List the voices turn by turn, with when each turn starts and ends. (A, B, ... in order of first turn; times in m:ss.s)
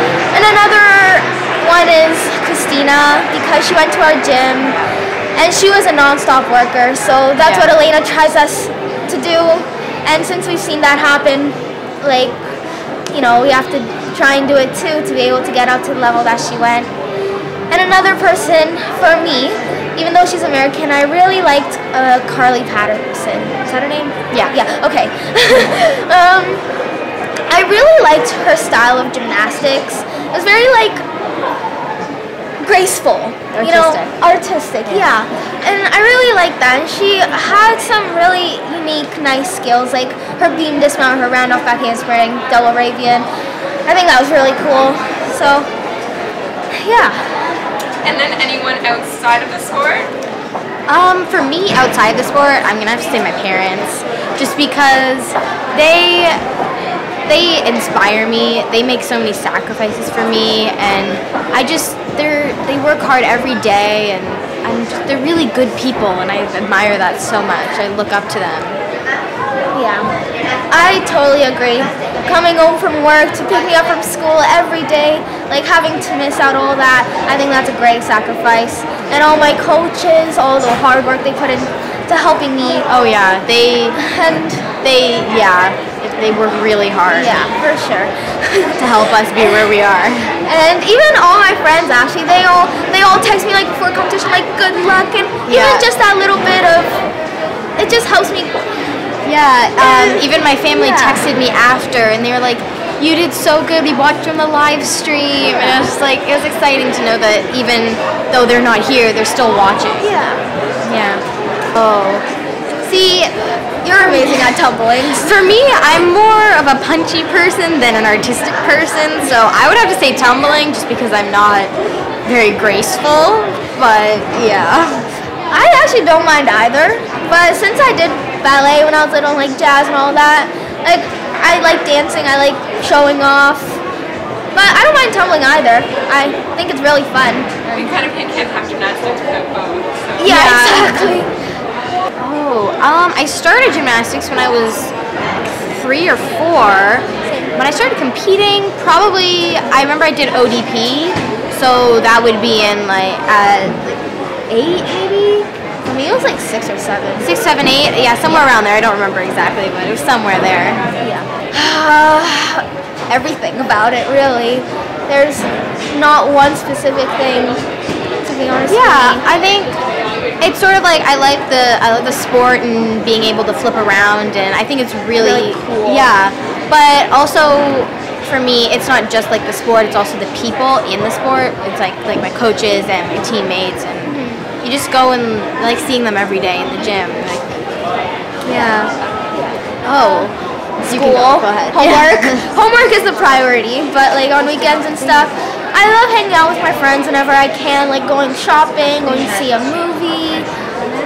0:00.3-0:04.8 A
0:04.6-0:04.9 B
0:05.4-0:12.4 A
0:07.4-0:07.7 B
0:13.1-0:16.9 A
0:17.7-0:26.6 A
0:27.5-0:31.0 A
0:32.6-0:43.3 A
0:33.5-0:34.1 B
0:34.8-0:35.2 B
0:43.8-0:45.7 A
0:46.7-0:47.2 A
0:48.0-0:50.1 C
0:50.9-0:56.4 B
0:57.2-1:08.8 B
1:09.7-1:10.1 A
1:10.7-1:22.8 A
1:22.9-1:24.0 B
1:24.0-1:24.8 A
1:24.8-1:27.4 B
1:27.1-1:28.8 A
1:28.8-1:30.4 B
1:30.4-1:37.0 A
1:35.5-1:35.9 B
1:37.8-1:38.6 A
1:39.2-1:50.1 B
1:39.8-1:41.2 A
1:50.0-1:50.4 A
1:50.8-1:51.2 B
1:51.7-1:52.3 B
1:52.8-1:53.3 B
1:53.8-1:55.3 A
1:53.8-1:54.6 B
1:55.2-2:01.7 B
2:02.2-2:05.1 B
2:05.5-2:13.8 A
2:14.5-2:17.9 A
2:17.7-2:20.2 C
2:20.2-2:21.3 A
2:20.2-2:21.2 B
2:22.2-2:35.5 B
2:27.2-2:27.6 A
2:35.8-2:37.3 A
2:37.2-2:40.8 B
2:41.0-2:47.6 A
2:48.2-2:49.2 A
2:48.7-2:49.8 B
2:50.4-3:07.6 B
2:55.2-2:56.1 A
3:04.0-3:04.4 A
3:08.4-3:09.5 A
3:09.8-3:10.3 B
3:10.8-3:20.5 A
3:10.8-3:12.4 B
3:19.0-3:19.6 B